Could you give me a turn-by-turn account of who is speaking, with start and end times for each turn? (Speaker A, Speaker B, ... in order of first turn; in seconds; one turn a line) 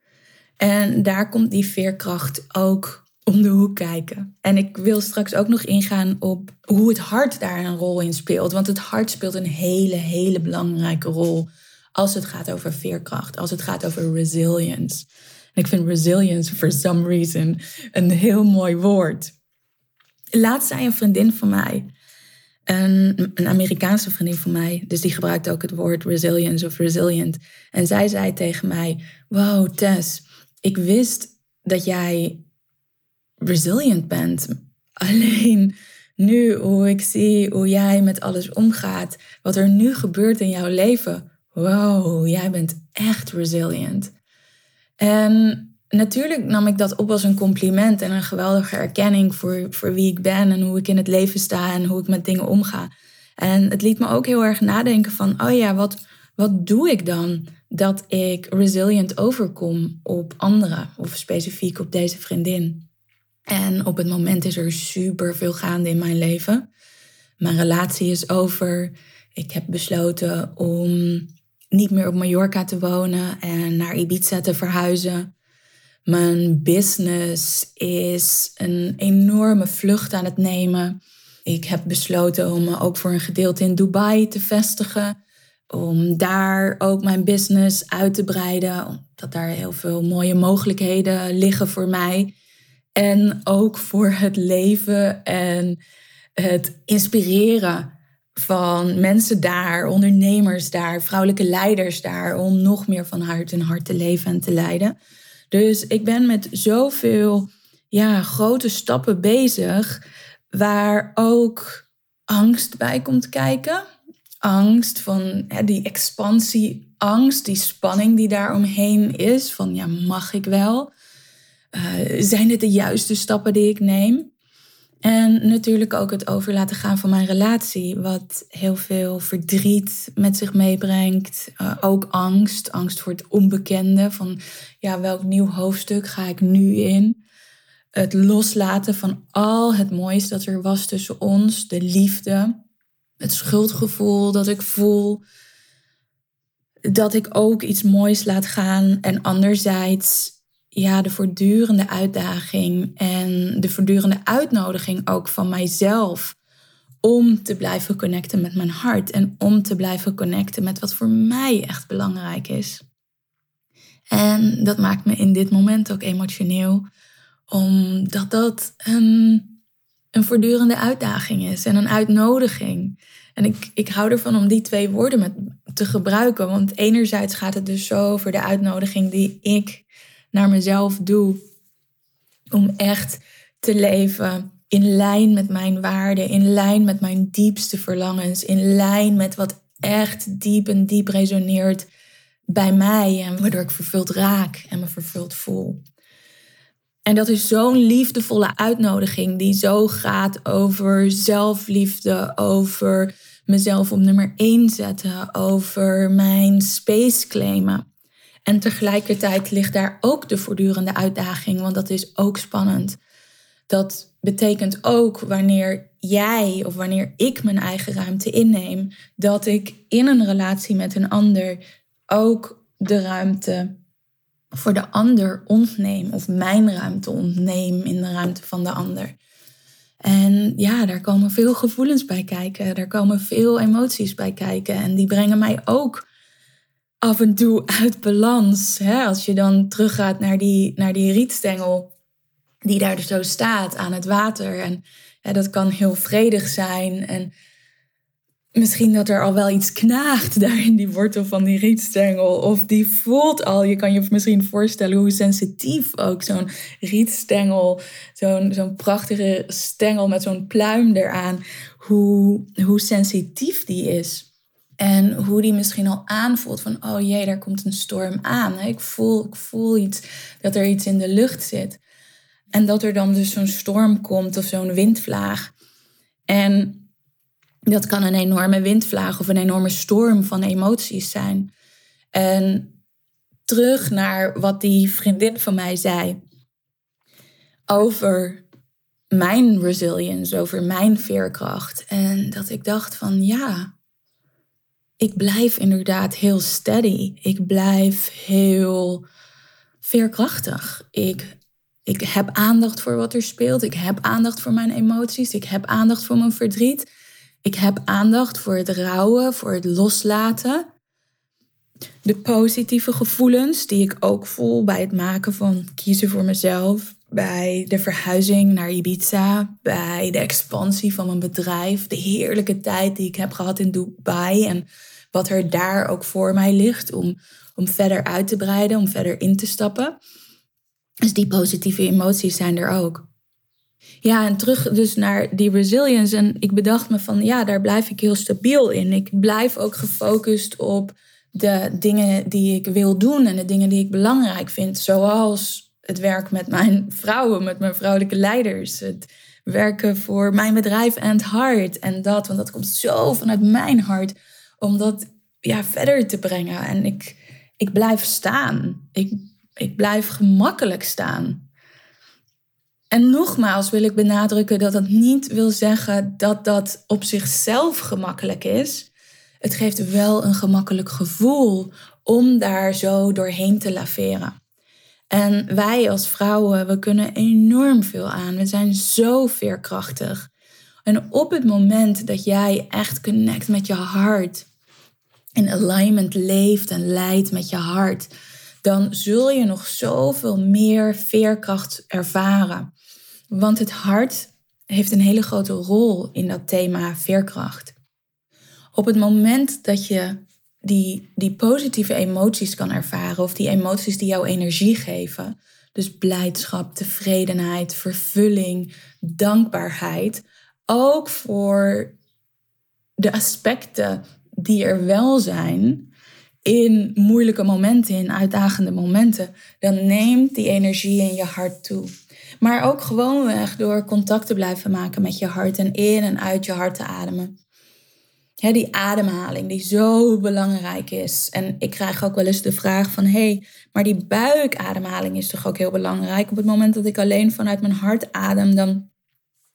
Speaker A: 0.6-19.3
Speaker A: 20.3-21.9
Speaker A: 22.7-32.4
Speaker A: 33.4-44.1
Speaker A: 45.0-62.9
Speaker A: 63.5-66.7
Speaker A: 67.4-75.3
Speaker A: 76.1-85.2
Speaker A: 85.7-92.3
Speaker A: 93.0-95.8
Speaker A: 96.4-105.0
Speaker A: 105.5-110.0
Speaker A: 110.5-113.8
Speaker A: 114.4-120.9
Speaker A: 121.7-124.3
Speaker A: 125.0-137.2
Speaker A: 137.9-142.6
Speaker A: 143.2-145.2
Speaker A: 146.9-156.4
Speaker A: 157.0-162.8
Speaker A: 164.1-166.8
Speaker A: 167.5-169.6
Speaker A: 170.1-181.4
Speaker A: 182.5-191.9
Speaker A: 192.5-195.8
Speaker A: 197.1-207.8
Speaker A: 208.5-213.0
Speaker A: 213.7-223.7
Speaker A: 224.5-229.2
Speaker A: 230.0-236.1
Speaker A: 237.0-241.9
Speaker A: 242.6-247.3
Speaker A: 248.6-264.3
Speaker A: 264.8-271.8
Speaker A: 272.5-275.5
Speaker A: 276.3-276.9
Speaker A: 277.7-281.5
Speaker A: 282.1-282.8
Speaker A: 283.5-286.2
Speaker A: 287.7-288.4
Speaker A: 289.1-293.7
Speaker A: 295.0-299.1
Speaker A: 299.8-306.9
Speaker A: 307.4-310.7
Speaker A: 312.1-330.0
Speaker A: 331.1-333.1
Speaker A: 334.0-361.4
Speaker A: 362.9-368.9
Speaker A: 369.4-374.4
Speaker A: 375.1-380.3
Speaker A: 380.9-384.5
Speaker A: 385.4-388.1
Speaker A: 388.6-392.7
Speaker A: 393.3-397.8
Speaker A: 398.8-411.9
Speaker A: 413.0-415.9
Speaker A: 416.4-427.4
Speaker A: 428.4-438.9